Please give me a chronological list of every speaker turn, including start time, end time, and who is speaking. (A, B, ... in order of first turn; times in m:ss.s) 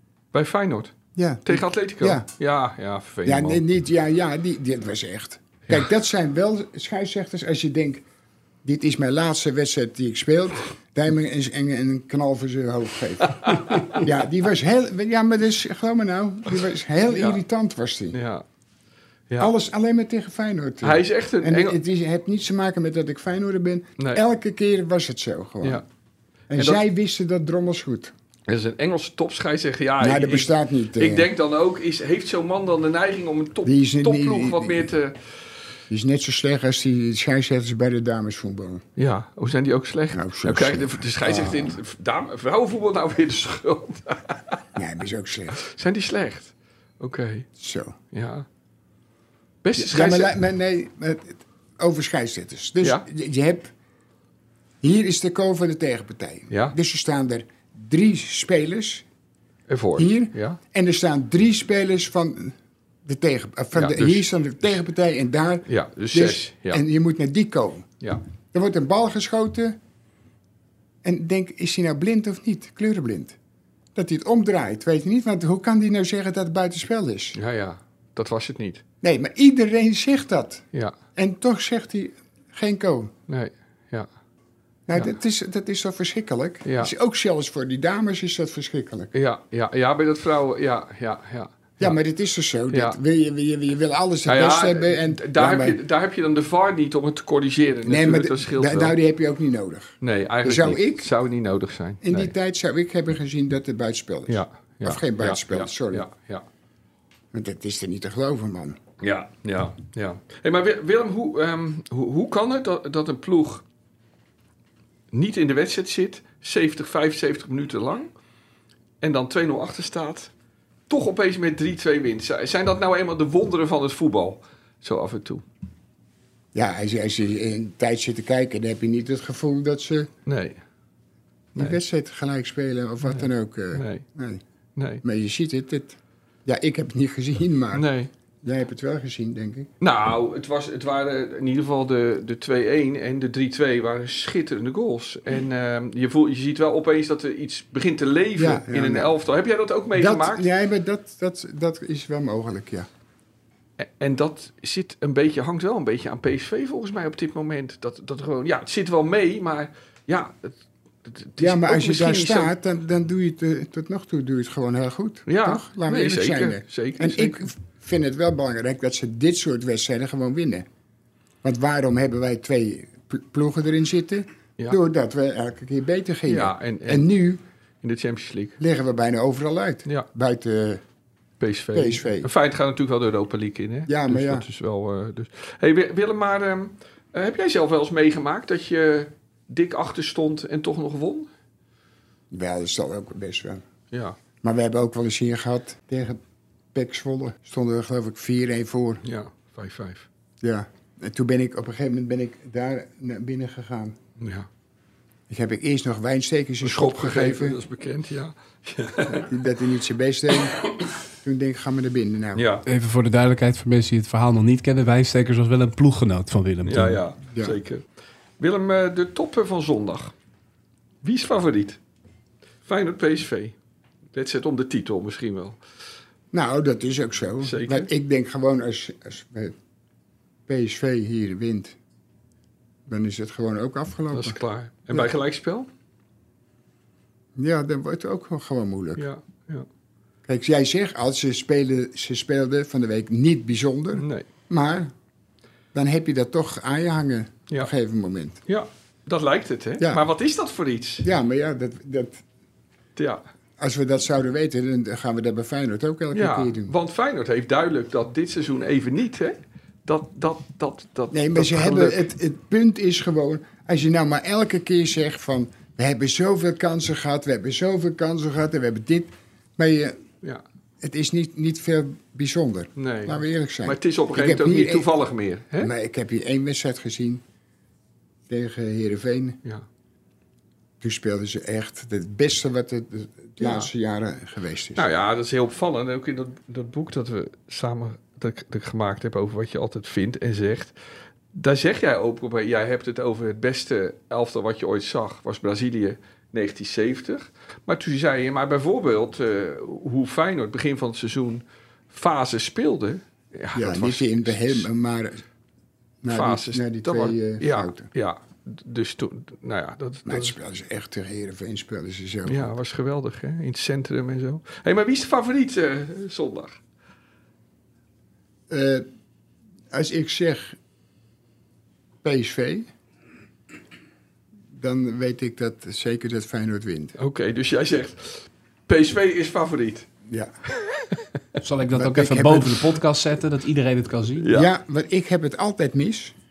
0:00.3-0:00.9 A
0:01.2-0:02.3 B
0:01.4-0:03.6 A
0:03.2-0:08.0 B
0:08.6-0:18.2 B
0:13.4-0:14.0 A
0:17.1-0:17.4 A
0:18.1-0:18.4 A
0:19.4-0:25.8 B
0:20.8-0:21.8 A
0:26.5-0:28.1 B
0:26.6-0:26.8 A
0:28.5-0:35.2 A
0:30.0-0:31.3 B
0:33.6-0:34.9 B
0:35.9-0:38.8 B
0:39.0-0:44.6 A
0:40.1-0:41.8 B
0:44.8-0:45.6 B
0:45.6-0:47.5 A
0:47.6-0:48.0 B
0:48.1-0:48.5 A
0:49.6-0:50.4 A
0:49.8-0:53.7 B
0:54.8-0:59.1 B
0:56.5-0:56.8 A
0:59.7-1:00.6 A
1:00.0-1:08.0 B
1:03.8-1:04.3 A
1:05.7-1:06.8 A
1:08.5-1:09.8 B
1:11.0-1:13.4 B
1:14.0-1:17.4 B
1:17.4-1:18.8 A
1:19.0-1:20.6 B
1:21.2-1:23.1 B
1:23.3-1:24.1 A
1:24.9-1:29.1 B
1:26.6-1:26.9 A
1:29.1-1:32.0 A
1:31.8-1:35.8 B
1:32.7-1:33.0 A
1:34.2-1:39.0 A
1:37.9-1:41.1 B
1:40.0-1:42.3 A
1:42.0-1:46.1 B
1:44.3-1:46.4 A
1:47.3-1:48.8 B
1:49.0-1:53.6 A
1:55.1-1:58.1 A
1:59.0-2:00.3 A
2:00.9-2:05.4 A
2:06.5-2:10.1 B
2:10.3-2:10.6 A
2:11.6-2:14.4 B
2:13.1-2:14.0 A
2:14.8-2:15.0 A
2:15.0-2:17.9 B
2:17.7-2:18.1 A
2:18.4-2:19.7 B
2:19.8-2:30.5 A
2:28.4-2:29.1 B
2:30.0-2:32.9 B
2:33.8-2:42.5 A
2:41.4-2:50.7 B
2:45.3-2:47.5 A
2:51.4-2:57.4 B
2:56.3-2:57.1 A
2:57.8-2:58.6 A
2:58.6-3:00.8 B
3:01.4-3:11.3 A
3:01.7-3:02.3 B
3:03.9-3:04.5 B
3:12.3-3:13.6 B
3:13.9-3:14.2 A
3:14.4-3:16.2 B
3:16.7-3:19.0 B
3:19.0-3:20.1 A
3:20.4-3:24.0 B
3:24.2-3:24.5 A
3:25.3-3:27.6 B
3:26.6-3:29.3 A
3:29.1-3:32.5 B
3:32.4-3:32.6 A
3:32.7-3:37.0 C
3:36.6-3:37.8 A
3:37.3-3:37.6 B
3:38.4-3:40.1 A
3:41.0-3:41.8 A
3:42.6-3:43.6 A
3:44.1-3:45.6 A
3:46.3-3:49.6 B
3:47.4-3:47.9 A
3:50.5-3:51.8 B
3:52.9-3:54.4 B
3:54.1-3:55.7 A
3:57.4-3:59.1 B
3:59.0-3:59.7 A
4:00.3-4:04.9 B
4:04.0-4:04.3 A
4:05.7-4:08.4 B
4:08.5-4:11.1 A
4:09.8-4:10.0 B
4:11.0-4:12.2 B
4:13.0-4:13.2 A
4:13.6-4:16.7 B
4:16.1-4:22.0 A
4:21.1-4:30.0 B
4:30.8-4:34.9 B
4:32.8-4:35.7 A
4:35.6-4:37.2 B
4:38.3-4:39.4 B
4:40.8-4:44.9 B
4:43.4-4:43.7 A
4:44.8-4:50.8 A
4:51.3-5:04.7 A
5:03.6-5:05.2 B
5:06.0-5:07.9 B
5:06.1-5:10.4 A
5:10.1-5:12.5 B
5:12.3-5:16.6 A
5:18.5-5:18.8 B
5:19.7-5:20.6 B
5:22.0-5:22.7 B
5:24.5-5:27.0 B
5:27.0-5:29.9 A
5:30.1-5:30.3 B
5:30.6-5:31.2 A
5:31.4-5:34.3 C
5:31.7-5:32.8 B
5:34.2-5:34.5 A
5:34.3-5:36.2 B